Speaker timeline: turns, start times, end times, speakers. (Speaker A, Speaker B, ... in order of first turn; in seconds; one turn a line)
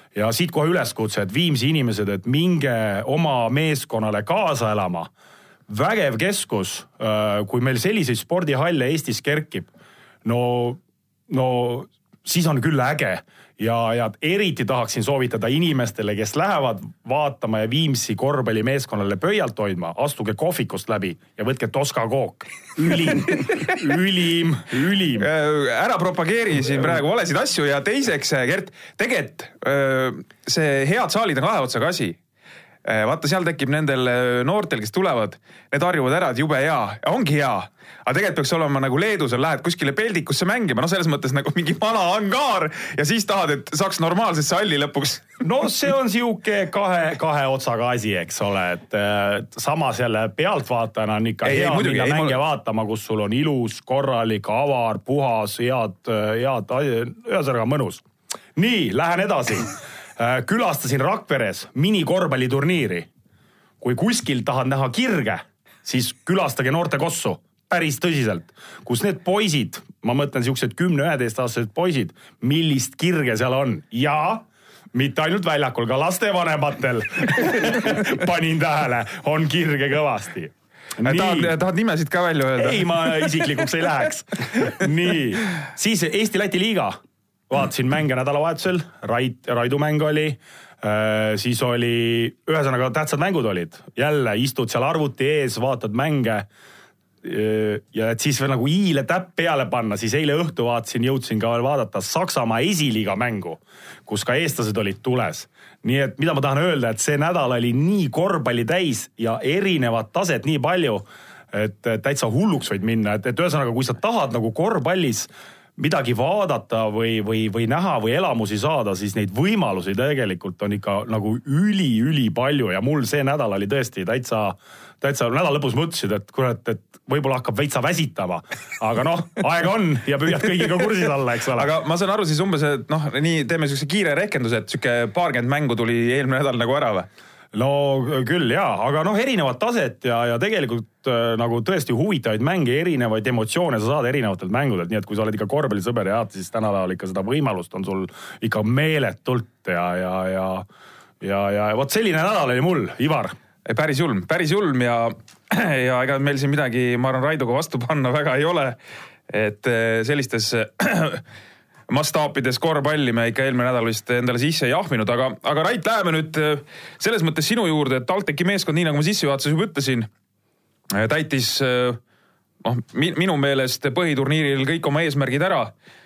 Speaker A: 0.1-5.1
Speaker A: 5.7-9.7
Speaker A: 10.2-25.3
Speaker B: 25.2-32.2
Speaker B: 32.8-45.4
Speaker A: 45.4-58.0
Speaker B: 51.4-52.4
Speaker A: 58.5-63.1
Speaker A: 63.8-81.5
Speaker B: 81.0-83.5
Speaker A: 82.6-87.0
Speaker A: 87.5-96.5
Speaker A: 97.2-131.7
Speaker B: 131.5-137.1
Speaker A: 137.5-150.7
Speaker A: 151.2-153.3
Speaker B: 153.7-158.8
Speaker B: 159.3-161.2
Speaker B: 161.9-170.1
Speaker B: 170.9-172.0
Speaker B: 172.6-175.7